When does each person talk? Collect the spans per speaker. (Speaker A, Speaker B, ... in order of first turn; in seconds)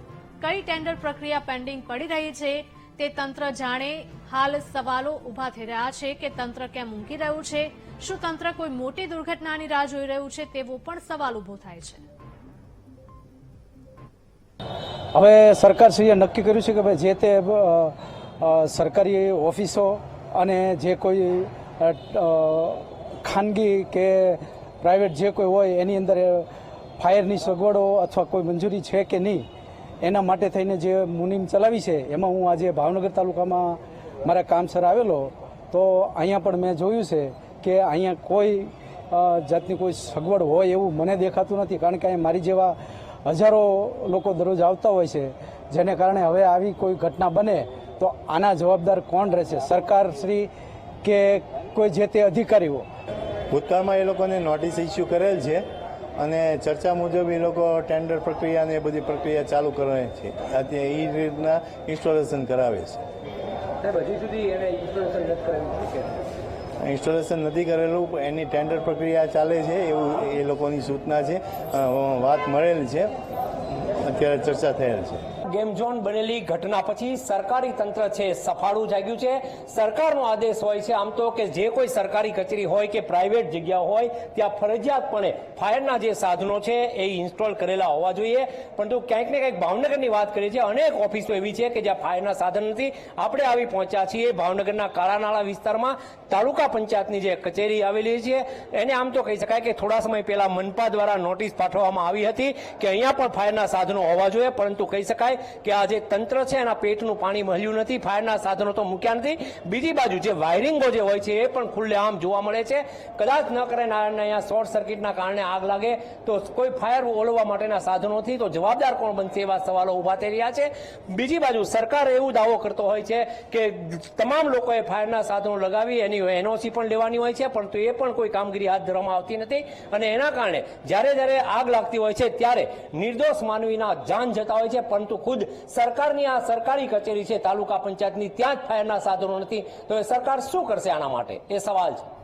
Speaker A: 0.4-12.0
Speaker B: 15.1-26.5, 27.0-29.5, 30.0-50.5, 51.0-52.8
Speaker C: 53.5-55.6, 56.2-63.0, 66.8-73.1, 74.0-75.3
Speaker D: 63.8-66.1, 75.5-142.0